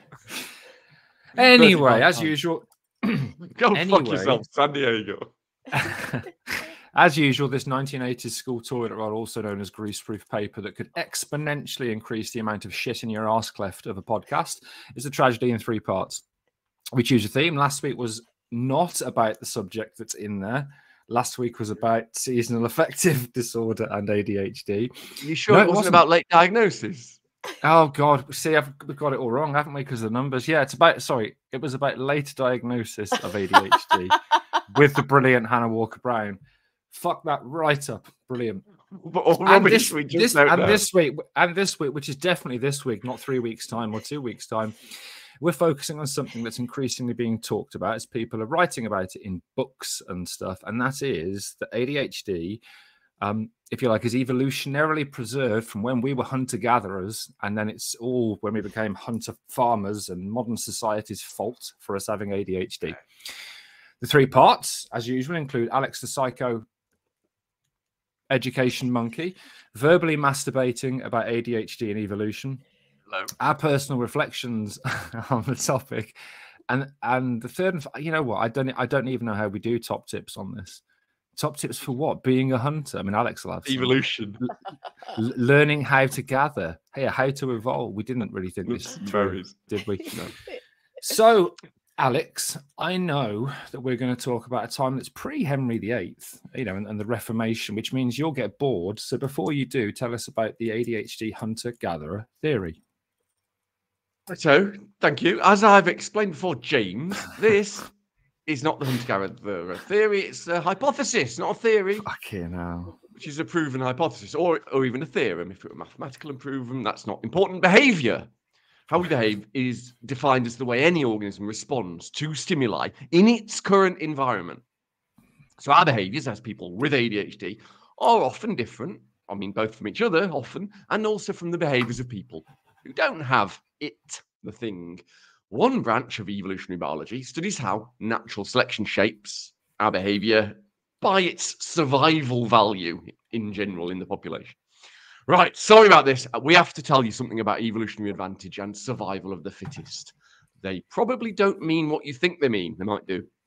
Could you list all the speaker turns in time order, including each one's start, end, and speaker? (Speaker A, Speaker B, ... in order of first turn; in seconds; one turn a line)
Speaker A: 1.3-4.4
Speaker B: 1.4-2.3
Speaker B: 3.5-5.3
Speaker A: 5.7-16.2
Speaker A: 16.9-24.9
Speaker B: 25.2-27.2
Speaker A: 25.5-26.0
Speaker A: 27.6-38.6
Speaker B: 38.9-40.9
Speaker A: 39.4-44.8
Speaker A: 45.4-52.6
Speaker A: 53.2-63.0
Speaker A: 64.0-66.6
Speaker A: 68.3-72.6
Speaker A: 73.4-76.1
Speaker A: 76.7-80.8
Speaker A: 81.3-84.5
Speaker B: 83.7-84.5
Speaker A: 85.1-90.2
Speaker B: 88.7-90.3
Speaker A: 91.0-102.8
Speaker B: 104.3-107.9
Speaker B: 108.5-112.1
Speaker A: 112.0-113.0
Speaker B: 113.1-118.3
Speaker B: 118.9-124.6
Speaker B: 125.6-144.6
Speaker B: 145.3-153.3